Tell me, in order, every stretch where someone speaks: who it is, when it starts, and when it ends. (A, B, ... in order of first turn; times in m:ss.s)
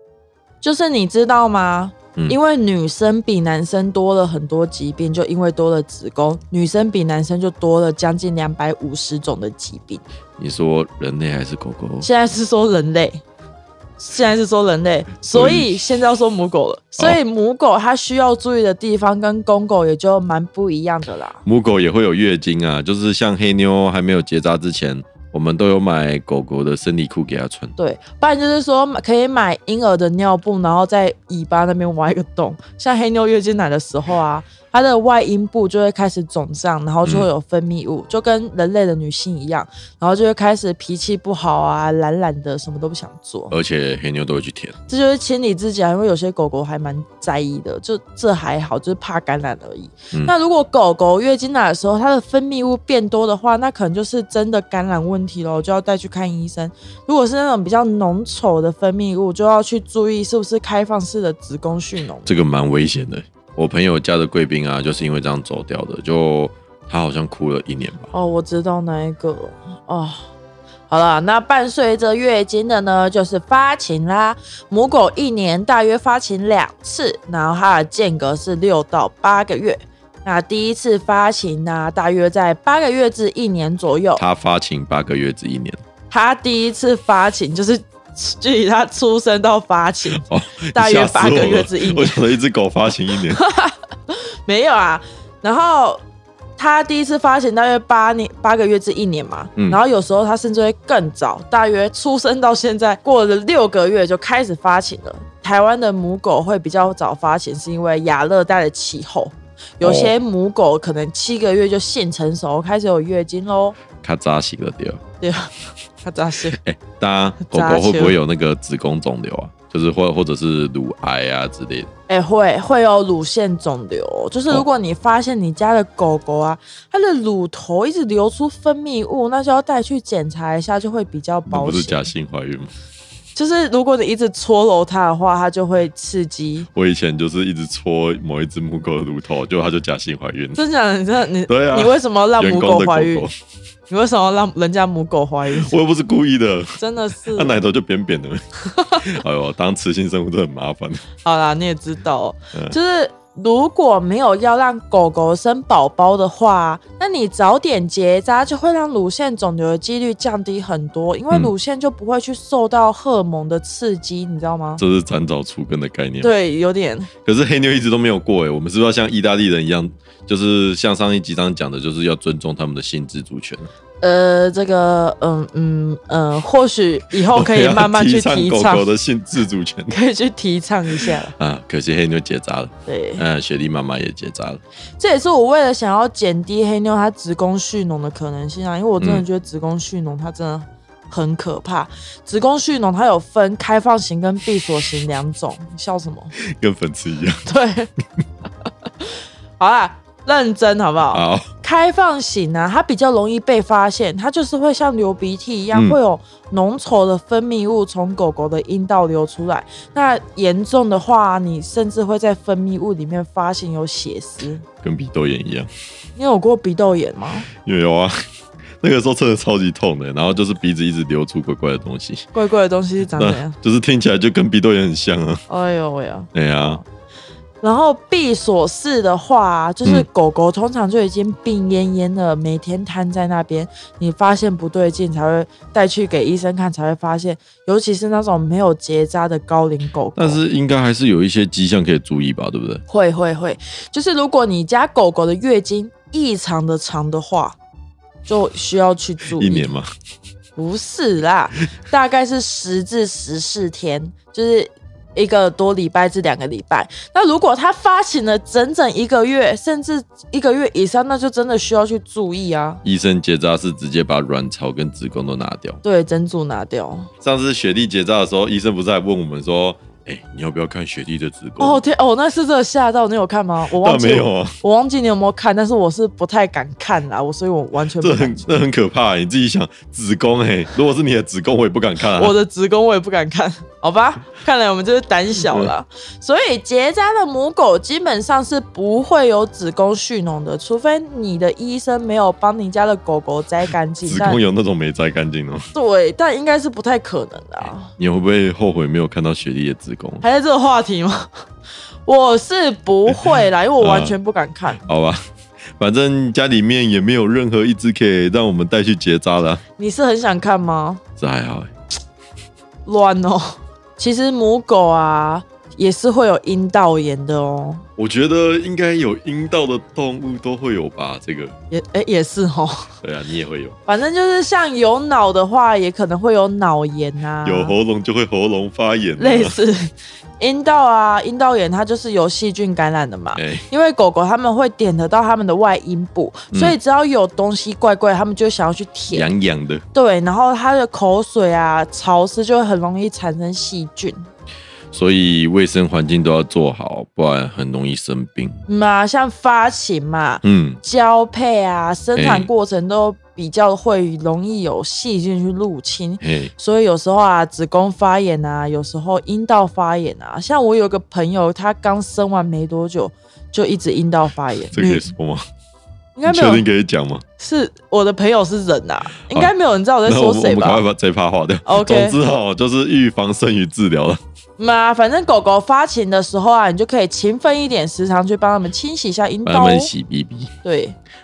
0:00.6-0:10.0 A
0:10.4-0:12.1 B
0:12.0-0:13.2 A
0:14.0-0:21.4 A
0:15.3-0:15.8 B
0:21.4-0:27.8 B
0:27.8-0:43.5 A
0:37.0-0:37.3 B
0:43.5-0:44.8 B
0:44.9-1:02.4 A
1:02.3-1:08.1 B
1:08.1-1:10.2 A
1:10.9-1:24.2 A
1:24.2-1:25.8 B
1:26.1-1:32.2 A
1:30.2-1:33.4 B
1:33.3-1:36.0 A
1:36.6-1:53.8 A
1:49.8-1:50.2 B
1:54.0-1:55.0 B
1:55.2-1:56.6 A
1:56.6-2:01.9 B
1:57.4-1:58.2 A
2:02.1-2:12.0 A
2:11.5-2:12.7 B
2:13.4-2:16.7 A
2:16.7-2:20.6 B
2:20.6-2:23.3 A
2:21.5-2:23.3 B
2:23.9-2:25.8 A
2:25.6-2:31.1 B
2:26.8-2:27.6 A
2:31.2-2:44.8 A
2:44.8-2:46.3 B
2:46.2-2:47.1 A
2:47.2-2:53.7 B
2:54.0-2:58.9 A
2:57.3-3:00.0 B
2:59.9-3:01.3 A
3:01.4-3:04.6 B
3:02.9-3:03.2 A
3:05.0-3:16.3 A
3:09.0-3:09.2 B
3:16.4-3:17.4 B
3:17.5-3:17.9 A
3:19.6-3:34.6 A
3:21.1-3:21.5 B
3:25.7-3:26.0 B
3:34.8-3:35.7 B
3:36.2-3:37.5 A
3:37.6-3:38.1 B
3:38.8-3:42.3 B
3:42.3-3:43.6 A
3:43.1-3:45.4 B
3:45.5-3:46.8 A
3:46.3-3:46.8 B
3:47.6-4:00.4 A
4:00.2-4:02.8 B
4:02.9-4:07.6 A
4:08.3-4:09.7 A
4:09.3-4:09.9 B
4:10.6-4:22.8 A
4:22.8-4:25.8 B
4:25.8-4:27.1 A
4:27.2-4:31.8 B
4:31.6-4:38.5 A
4:33.8-4:34.6 B
4:38.0-4:42.4 B
4:42.0-4:54.4 A
4:45.4-4:45.7 B
4:54.0-4:55.6 B
4:55.7-4:57.9 A
4:57.9-5:00.2 B
5:00.2-5:01.3 A
5:02.1-5:04.8 A
5:03.8-5:04.2 B
5:04.8-5:05.2 B
5:05.8-5:09.6 B
5:09.8-5:11.0 A
5:11.2-5:11.7 B
5:12.9-5:17.8 A
5:18.0-5:21.6 B
5:21.7-5:22.9 A
5:23.0-5:23.8 B
5:23.9-5:27.8 A
5:27.4-5:29.6 B
5:29.2-5:39.3 A
5:33.4-5:33.7 B
5:39.1-5:39.8 B
5:39.9-5:44.2 A
5:44.9-5:48.6 B
5:48.7-6:05.1 A
5:50.4-5:50.8 B
5:52.2-5:52.5 B
5:56.2-5:56.5 B
6:04.7-6:05.5 B
6:06.2-6:06.7 A
6:06.3-6:07.2 B
6:07.4-6:10.9 A
6:10.1-6:14.2 B
6:11.7-6:12.2 A
6:14.6-6:19.9 A
6:19.5-6:20.5 B
6:20.6-6:21.0 A